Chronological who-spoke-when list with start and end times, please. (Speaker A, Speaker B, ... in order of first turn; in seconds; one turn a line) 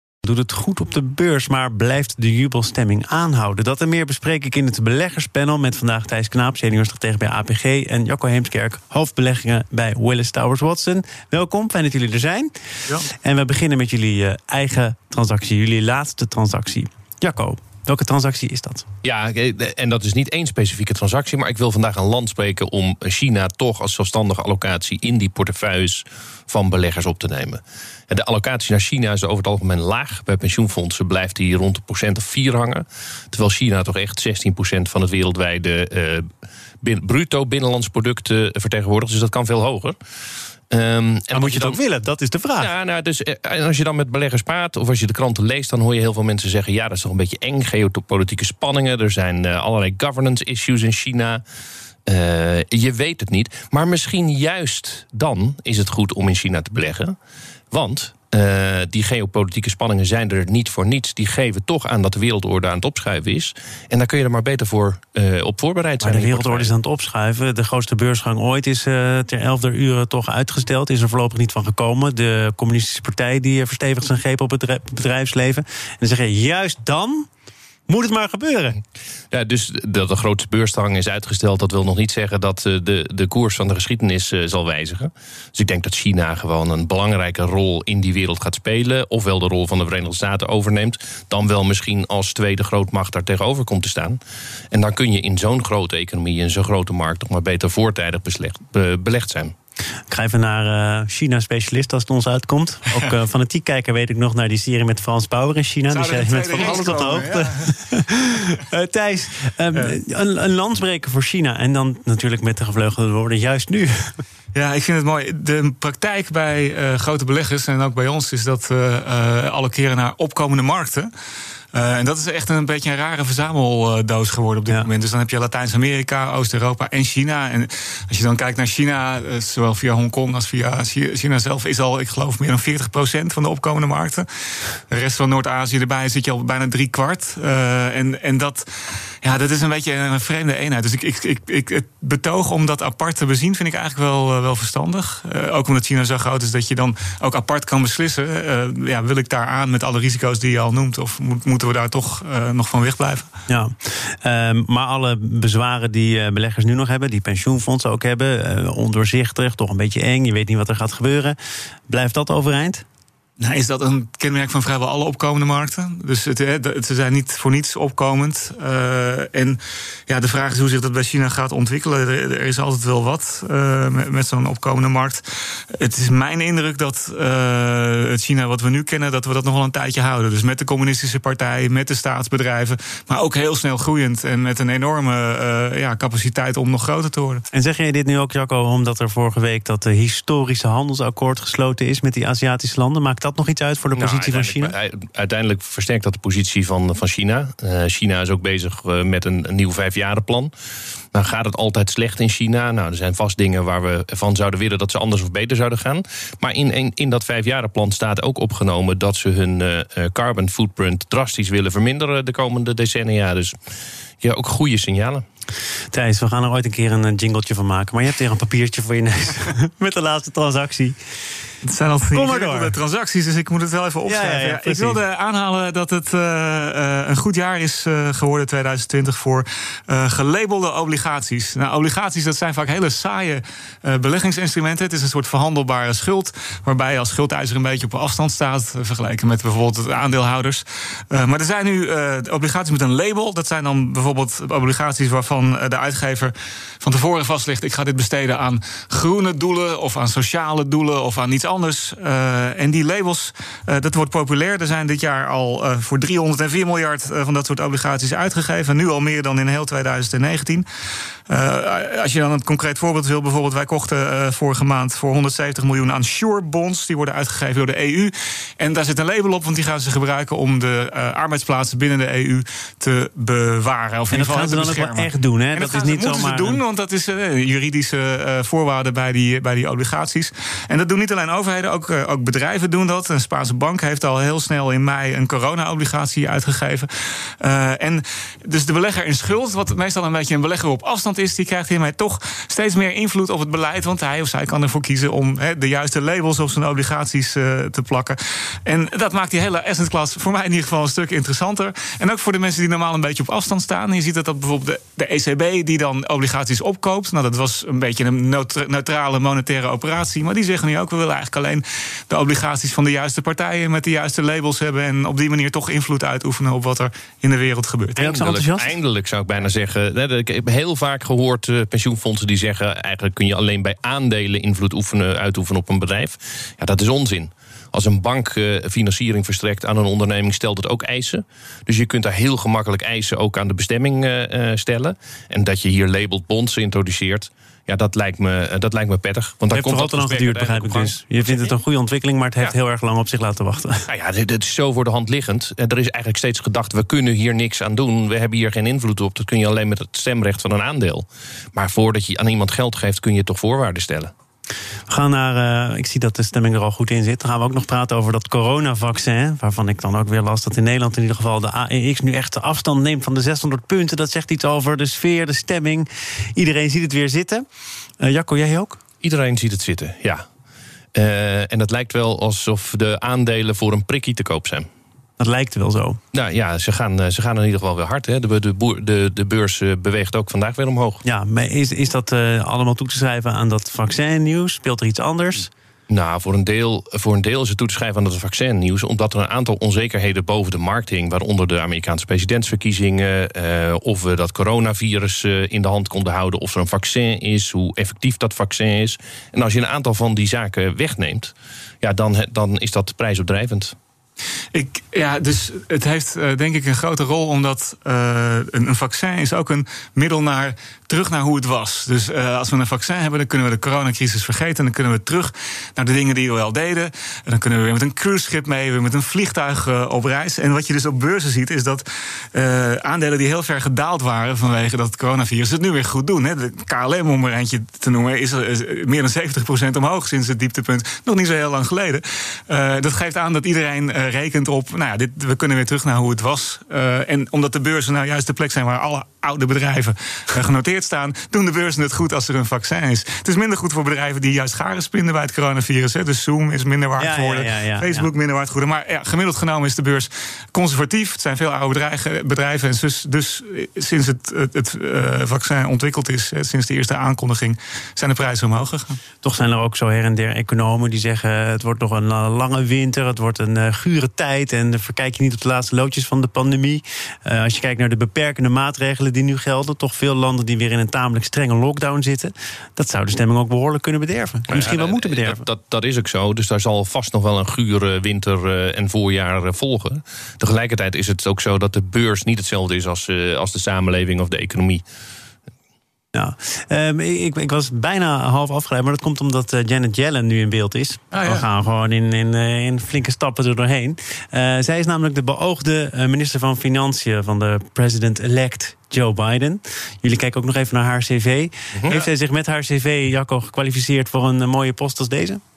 Speaker A: 0.2-18.9
Speaker B: 19.0-36.3
Speaker B: 36.8-40.0
Speaker B: 40.7-41.8
Speaker A: 41.3-42.7
Speaker B: 42.6-51.4
Speaker B: 52.1-57.2
Speaker B: 57.7-66.7
Speaker A: 66.0-77.3
Speaker A: 77.9-78.8
Speaker B: 79.3-94.2
Speaker B: 94.7-99.5
Speaker A: 100.1-114.2
Speaker C: 105.9-107.7
Speaker C: 114.5-121.1
Speaker C: 121.7-134.3
Speaker C: 134.9-138.7
Speaker C: 139.2-153.3
Speaker A: 153.5-161.4
Speaker A: 161.9-162.8
Speaker C: 163.4-187.4
Speaker A: 187.5-194.8
Speaker B: 193.9-200.5
Speaker B: 201.1-213.6
Speaker B: 214.2-215.2
Speaker A: 215.9-221.0
Speaker C: 221.7-260.6
Speaker A: 222.1-222.8
Speaker A: 224.1-225.0
Speaker C: 261.3-318.0
Speaker A: 274.1-276.6
Speaker A: 318.0-318.8
Speaker B: 318.0-341.6
Speaker A: 339.5-343.9
Speaker B: 343.9-354.1
Speaker A: 354.9-367.4
Speaker A: 368.0-368.8
Speaker B: 369.0-370.2
Speaker B: 370.9-374.7
Speaker A: 375.2-376.0
Speaker B: 376.1-381.0
Speaker A: 381.0-385.5
Speaker B: 385.9-403.8
Speaker C: 404.5-459.0
Speaker A: 447.0-448.1
Speaker A: 459.2-475.5
Speaker B: 474.5-484.8
Speaker A: 486.1-505.4
Speaker C: 491.1-491.4
Speaker B: 501.8-502.1